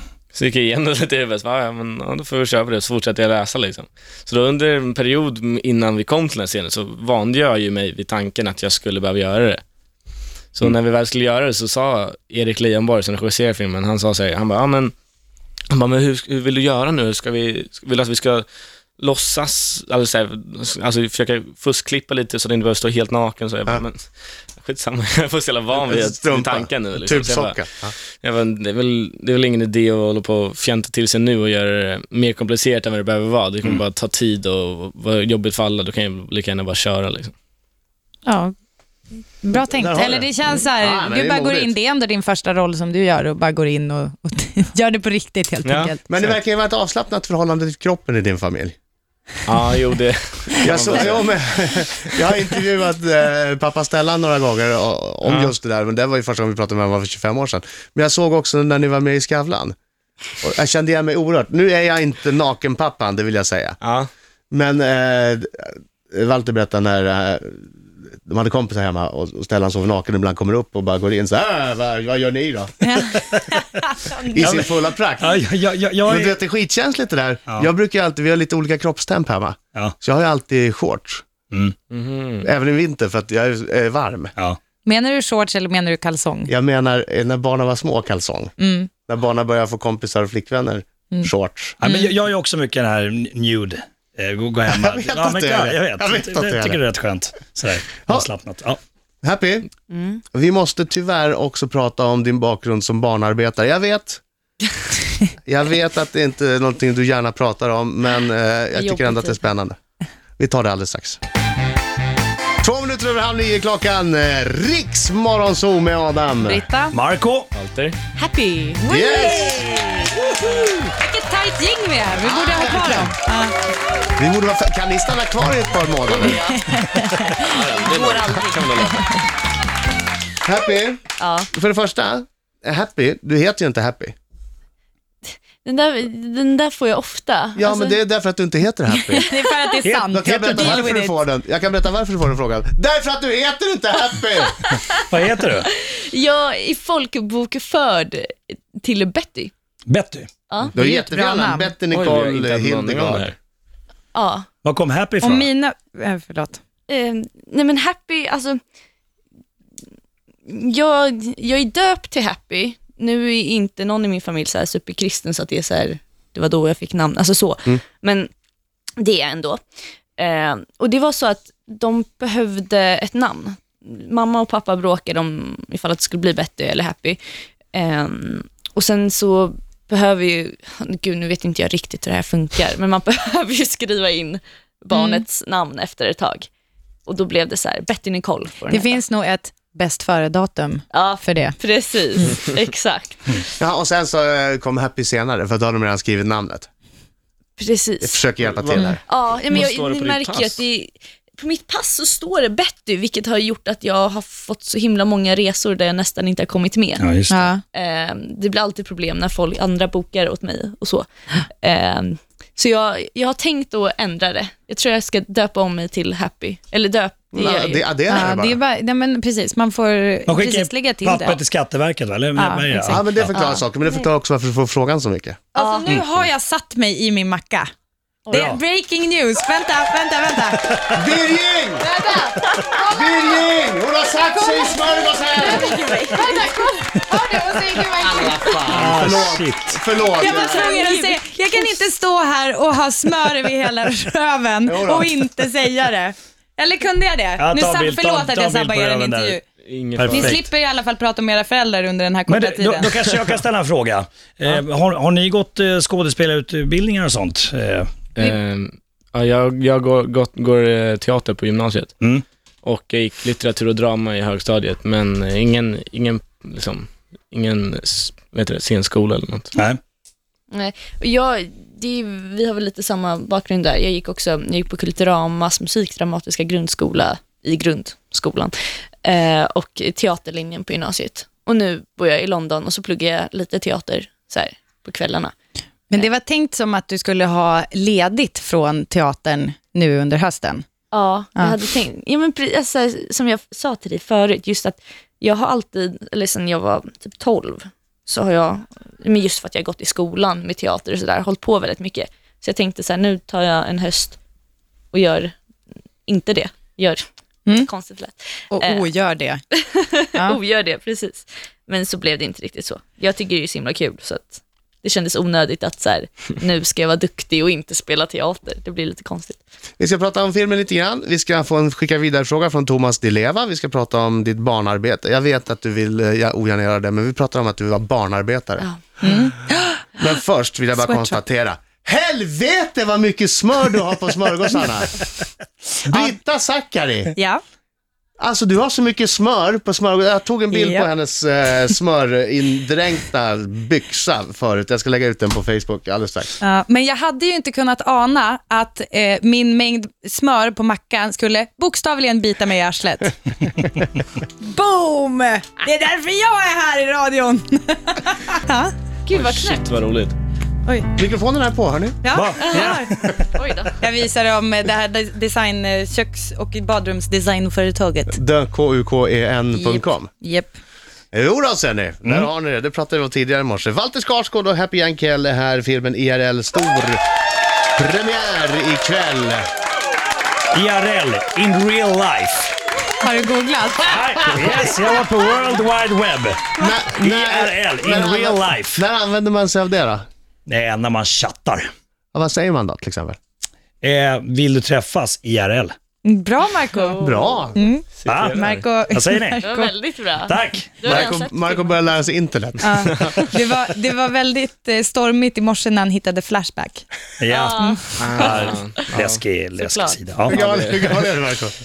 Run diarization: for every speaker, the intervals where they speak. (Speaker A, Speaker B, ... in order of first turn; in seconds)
Speaker A: 0.3-9.6, 10.5-14.9, 15.7-18.4, 19.0-27.6, 28.1-37.3, 45.6-45.9, 49.5-51.3, 55.2-55.5, 63.8-64.1, 81.9-82.5, 117.5-118.0, 127.4-129.1, 151.9-153.3, 198.4-200.6, 249.6-250.4, 258.1-261.9, 262.6-269.5, 359.1-360.1, 398.0-398.6, 408.0-409.2, 410.3-410.9
Speaker B: 25.7-27.9, 39.9-40.1, 40.8-41.7, 46.1-48.7, 50.6-59.7, 60.4-63.8, 64.5-72.8, 74.3-75.4, 76.0-81.2, 82.4-84.3, 86.5-88.5, 89.1-91.8, 94.7-96.8, 99.2-99.7, 100.3-104.2, 105.4-109.8, 110.4-111.2, 112.6-116.6, 118.9-120.6, 122.2-123.1, 124.2-126.5, 130.4-134.1, 137.6-139.3, 140.1-144.7, 150.7-153.3, 193.6-196.7, 198.0-199.0, 217.3-218.6, 222.9-225.4, 230.9-231.9, 232.8-236.0, 237.8-240.7, 244.6-245.2, 319.8-328.7, 330.0-335.0, 335.8-337.1, 338.2-346.3, 360.9-362.0, 368.1-370.1, 371.1-377.0, 377.7-379.5, 386.6-390.1, 392.1-393.2, 397.0-397.6, 400.8-403.1, 410.2-411.5
Speaker C: 38.2-38.5, 39.4-46.0, 72.8-74.4, 84.8-86.5, 88.6-88.9, 91.8-92.1, 116.4-117.0, 118.8-120.0, 121.0-123.5, 126.7-127.5, 139.2-141.2, 150.8-151.7, 155.2-156.6, 184.9-185.2, 188.7-191.6, 207.3-207.6, 218.1-221.4, 222.3-223.0, 225.5-227.7, 228.3-230.9, 231.8-233.3, 234.4-238.7, 240.2-249.4, 250.1-253.0, 285.9-290.6, 308.5-309.4, 329.0-329.9, 330.8-331.2, 337.1-337.4, 340.5-340.9, 346.4-353.1, 354.4-358.7, 362.0-362.9, 363.8-368.2, 369.5-370.6, 383.0-384.0, 396.0-399.7, 402.6-406.9
Speaker D: 74.4-74.7, 75.2-76.3, 81.5-81.7, 91.8-98.8, 116.9-117.5, 139.8-140.8, 145.1-145.7, 149.9-150.3, 154.6-155.5, 207.0-207.5, 220.3-223.3, 228.3-228.6, 230.7-231.0, 238.7-239.8, 247.4-249.4, 249.9-250.4, 252.3-257.9, 262.0-262.2, 269.5-269.8, 362.1-363.2, 380.5-382.5, 383.8-388.8, 390.5-391.7, 393.8-395.7, 398.1-399.4, 400.3-401.1, 407.2-410.4
Speaker E: 99.9-100.2, 108.7-109.4, 118.1-118.8, 126.1-126.7, 127.4-129.0, 131.2-131.5, 135.3-138.0, 144.7-145.0, 145.6-149.5, 154.1-154.5, 156.9-158.6, 160.4-168.3, 169.0-169.6, 170.2-177.2, 177.7-186.5, 187.1-189.0, 190.9-193.5, 197.6-198.2, 199.1-207.1, 207.6-217.8, 223.3-224.1, 225.6-225.9, 228.3-228.5, 232.0-232.9, 235.3-237.3, 240.0-241.8, 270.5-285.3, 290.9-304.2, 304.9-305.4, 306.1-307.0, 307.6-308.9, 309.5-319.4, 359.0-359.6, 362.4-362.7, 363.3-363.8, 396.8-397.5, 399.4-401.9, 407.3-408.8, 409.6-410.0